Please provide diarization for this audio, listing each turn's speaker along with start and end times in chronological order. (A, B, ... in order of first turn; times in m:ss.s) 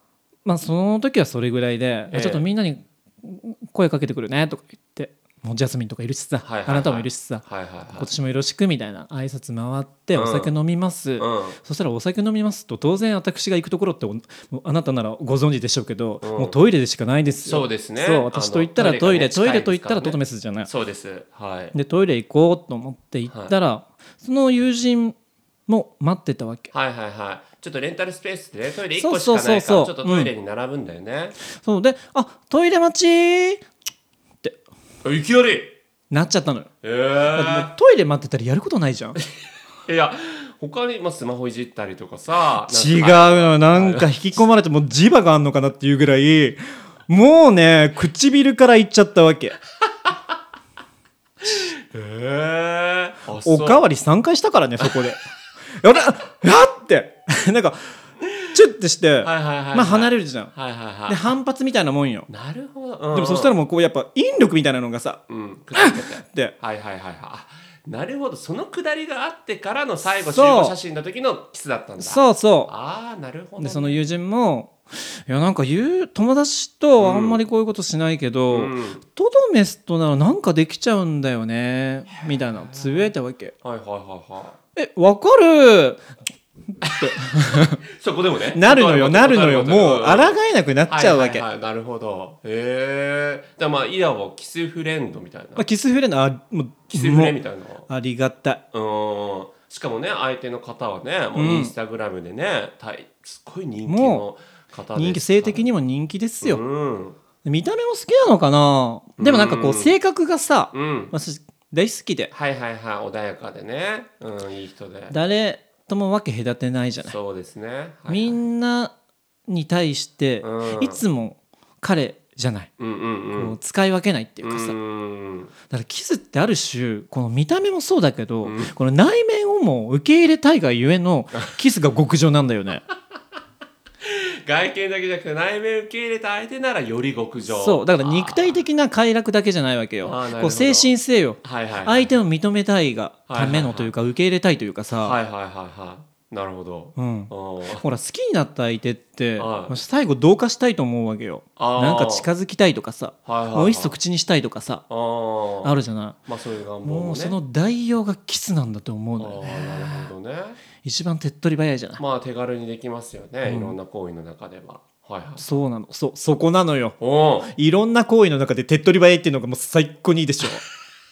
0:00.4-0:07.4 A
0:02.1-0:02.5 B
0:06.4-0:08.1 B
0:08.0-0:20.7 A
0:10.1-0:10.5 B
0:11.2-0:11.6 B
0:16.2-0:16.6 B
0:17.5-0:21.8 B
0:21.7-0:25.2 A
0:23.3-0:23.6 B
0:25.7-0:26.7 A
0:26.7-0:31.4 B
0:29.0-0:30.3 A
0:31.5-0:33.6 A
0:35.0-0:35.8 B
0:36.1-0:36.7 A
0:36.8-0:37.7 B
0:37.3-0:39.2 A
0:39.9-0:44.1 B
0:42.7-0:49.6 A
0:51.4-0:53.8 B
0:53.4-0:55.2 A
0:55.8-0:57.9 A
0:58.5-1:00.5 A
0:59.2-1:01.3 B
1:01.1-1:02.3 A
1:02.3-1:03.6 B
1:03.1-1:05.2 A
1:05.3-1:14.1 B
1:05.8-1:06.5 A
1:10.2-1:10.8 A
1:12.0-1:12.7 A
1:13.6-1:23.5 A
1:17.0-1:17.4 B
1:18.5-1:19.0 B
1:22.2-1:24.6 B
1:24.8-1:26.0 A
1:26.8-1:27.8 A
1:26.8-1:35.7 B
1:28.5-1:31.4 A
1:35.6-1:37.4 A
1:36.9-1:37.9 B
1:37.9-1:38.6 A
1:38.7-1:45.7 B
1:41.4-1:41.7 A
1:43.9-1:44.2 A
1:44.9-1:46.6 A
1:46.4-1:47.2 B
1:47.4-1:52.3 A
1:49.2-1:50.0 B
1:50.7-1:51.1 B
1:52.3-1:55.2 B
1:55.1-1:57.2 A
1:57.0-1:58.4 B
1:58.1-1:58.9 A
1:59.5-2:02.7 A
2:00.4-2:01.0 B
2:02.8-2:03.6 B
2:03.3-2:04.8 A
2:04.4-2:05.5 B
2:05.7-2:12.8 A
2:08.4-2:08.7 B
2:14.0-2:18.6 B
2:17.5-2:25.2 A
2:20.0-2:22.2 B
2:23.3-2:23.9 B
2:25.0-2:27.8 B
2:27.0-2:34.8 A
2:29.4-2:29.8 B
2:31.6-2:32.3 B
2:33.3-2:34.0 B
2:34.9-2:35.8 B
2:35.6-2:36.3 A
2:36.3-2:37.4 B
2:36.8-2:40.1 A
2:39.2-2:40.6 B
2:40.8-2:42.0 A
2:42.0-2:45.5 B
2:43.4-2:43.8 A
2:45.4-2:50.6 A
2:47.0-2:47.5 B